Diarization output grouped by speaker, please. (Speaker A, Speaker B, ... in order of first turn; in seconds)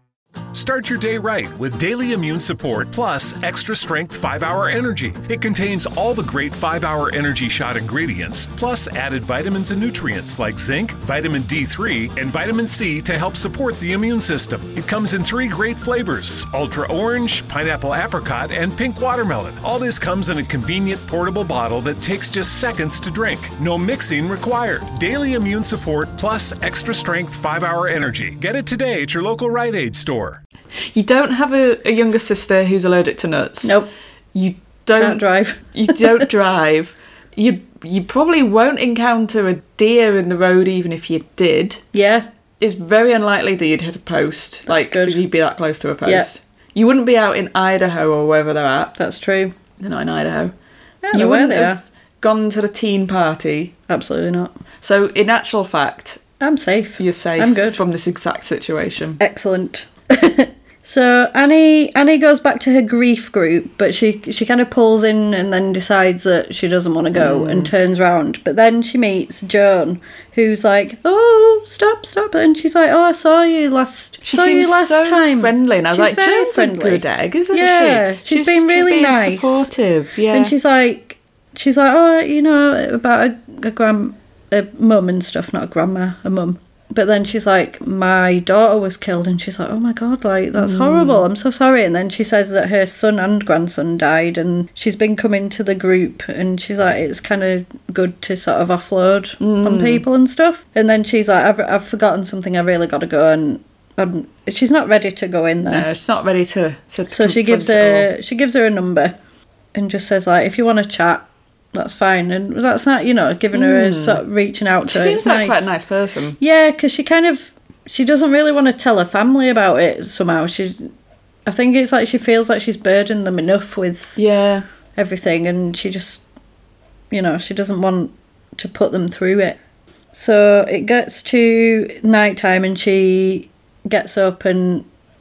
Speaker A: 0.5-30.4
Speaker B: 30.9-33.8, 34.3-41.8, 42.6-48.9, 49.8-50.5, 51.1-53.7, 54.8-56.2, 57.0-59.2, 67.1-67.7, 74.2-80.5, 90.5-91.3, 99.4-100.1, 105.7-108.1, 113.5-114.2, 114.9-116.4, 124.2-124.6
Speaker C: 33.6-33.9, 35.0-35.7, 41.9-42.3, 44.7-45.2, 49.0-49.5, 51.0-51.8, 53.9-54.5, 56.4-57.8, 59.2-79.7, 80.3-105.9, 107.1-109.1, 109.7-115.7, 116.4-120.9, 121.5-124.2, 125.0-126.2, 127.1-129.6, 130.1-134.8